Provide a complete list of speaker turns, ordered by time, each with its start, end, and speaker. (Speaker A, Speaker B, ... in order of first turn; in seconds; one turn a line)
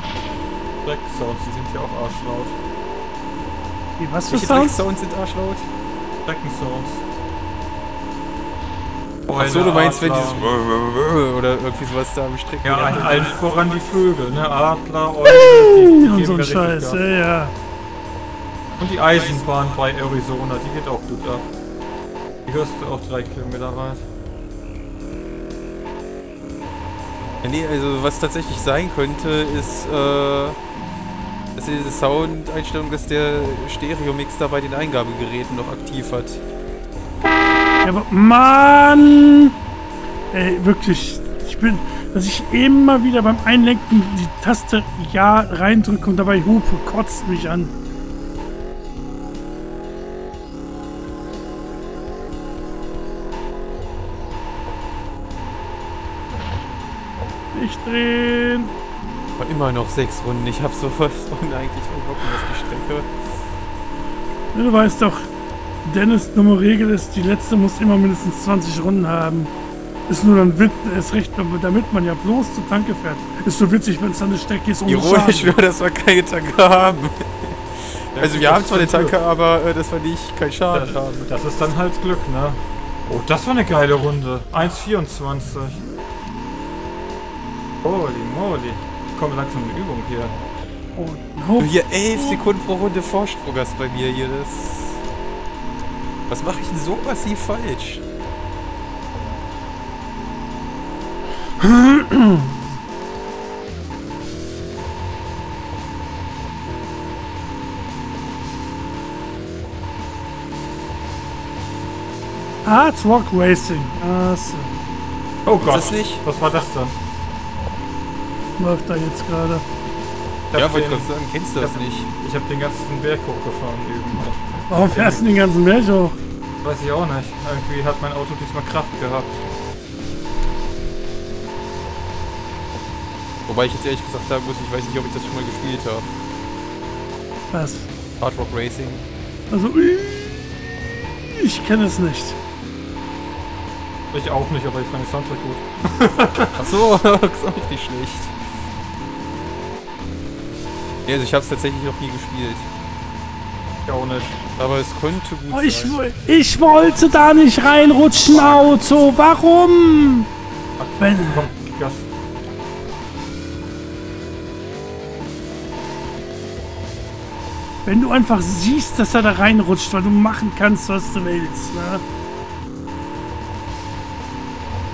Speaker A: 0.8-2.5
Speaker B: 4.0-4.8
Speaker C: 4.3-5.7
Speaker A: 6.3-7.0
Speaker A: 9.3-10.5
Speaker C: 9.4-13.4
Speaker A: 12.6-17.0
Speaker B: 15.2-17.5
Speaker A: 18.8-21.5
Speaker A: 22.5-24.1
Speaker C: 27.4-30.6
Speaker C: 31.6-36.4
Speaker B: 37.8-39.5
Speaker B: 40.3-47.7
Speaker B: 57.5-58.7
Speaker C: 59.4-63.1
Speaker B: 64.5-65.3
Speaker B: 65.8-69.5
Speaker B: 70.1-75.6
Speaker C: 74.9-81.0
Speaker A: 78.2-79.2
Speaker A: 80.7-85.8
Speaker A: 87.8-90.3
Speaker B: 91.0-92.4
Speaker C: 91.6-95.0
Speaker C: 96.3-98.0
Speaker B: 101.6-102.5
Speaker B: 112.7-114.7
Speaker A: 115.5-117.0
Speaker C: 115.6-116.2
Speaker B: 118.6-119.6
Speaker A: 120.5-125.2
Speaker C: 120.5-122.1
Speaker B: 124.7-126.2
Speaker A: 126.6-129.4
Speaker C: 133.5-136.1
Speaker B: 137.5-137.9
Speaker C: 138.2-139.0
Speaker B: 139.5-140.5
Speaker B: 141.3-142.4
Speaker A: 144.1-146.8
Speaker C: 146.6-148.3
Speaker C: 151.1-152.7
Speaker A: 153.9-154.4
Speaker C: 154.6-156.0
Speaker B: 155.5-160.3
Speaker C: 158.4-158.9
Speaker A: 160.8-162.1
Speaker B: 161.0-161.5
Speaker B: 167.8-172.0